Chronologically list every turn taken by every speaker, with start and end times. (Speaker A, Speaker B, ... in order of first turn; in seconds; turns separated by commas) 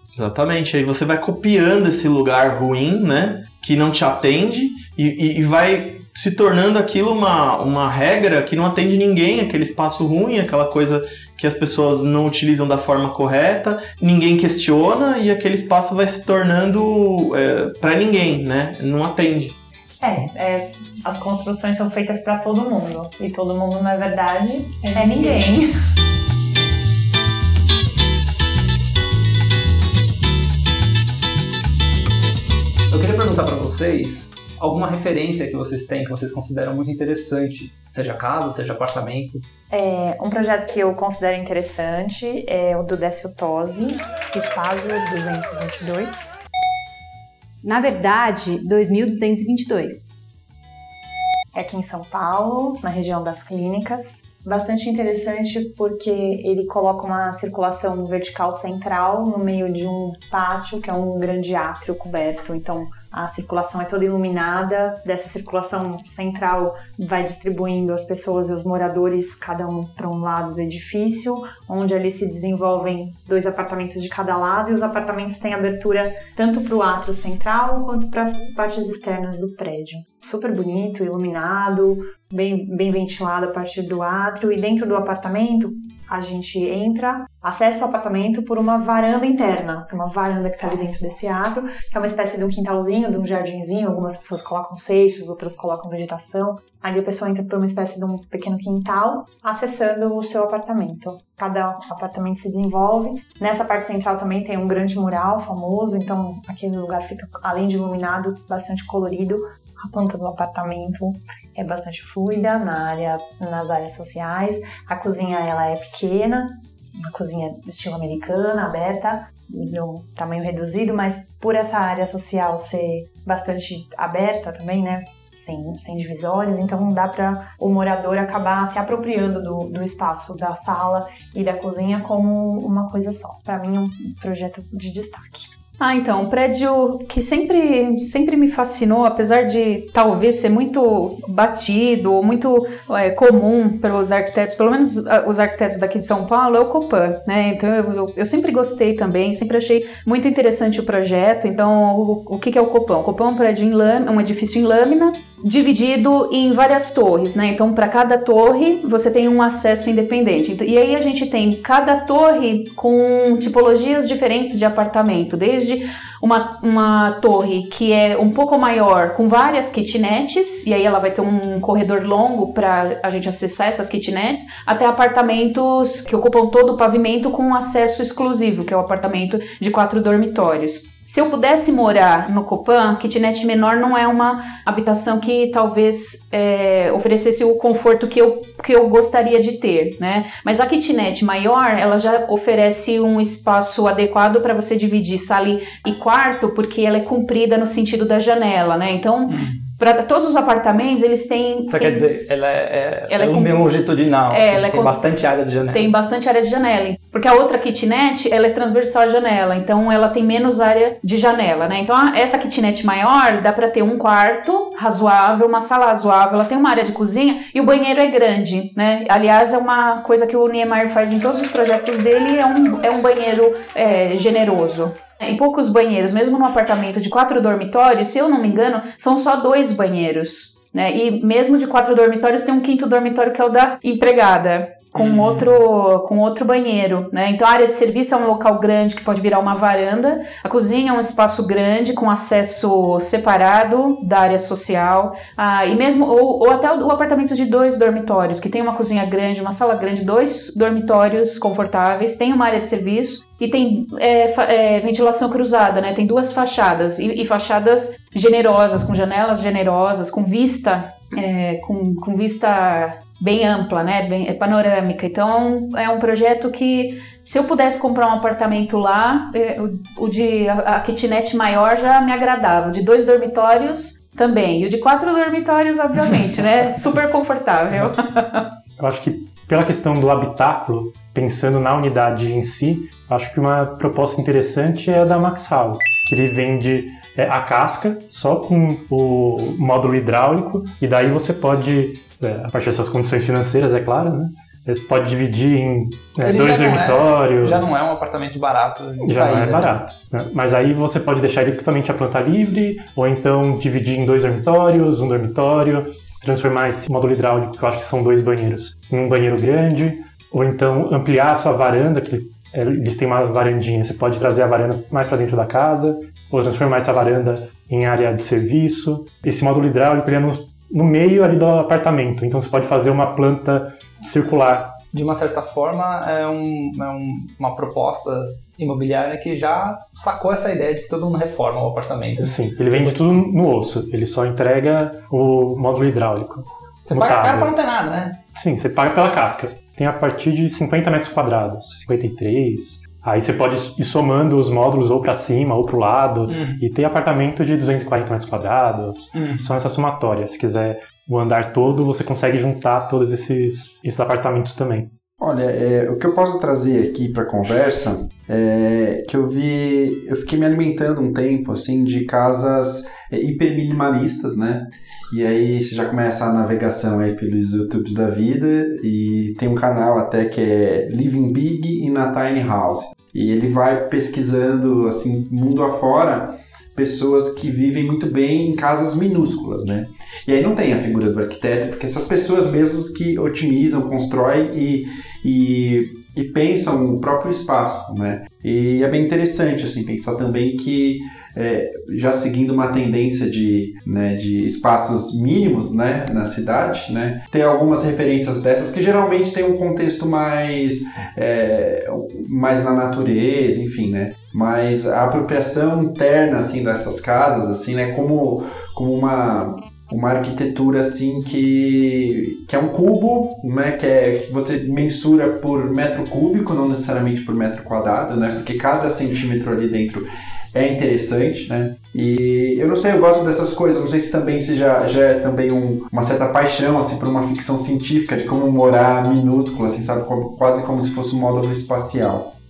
Speaker A: 0.1-19.6, Speaker B: 20.0-25.7, Speaker C: 32.9-39.5, Speaker B: 39.7-46.4, Speaker D: 47.6-50.1, Speaker B: 51.5-135.5, Speaker E: 135.8-202.1, Speaker C: 199.3-199.6, Speaker C: 201.7-205.9, Speaker E: 203.1-203.8, Speaker E: 204.3-205.0, Speaker E: 205.7-278.5, Speaker C: 235.0-235.5, Speaker F: 278.8-297.7, Speaker C: 296.2-299.9, Speaker F: 299.0-324.8, Speaker C: 324.9-333.0, Speaker F: 332.2-337.6, Speaker C: 336.9-338.2, Speaker F: 338.3-354.9, Speaker C: 346.3-346.6, Speaker C: 349.1-349.5, Speaker G: 355.2-432.3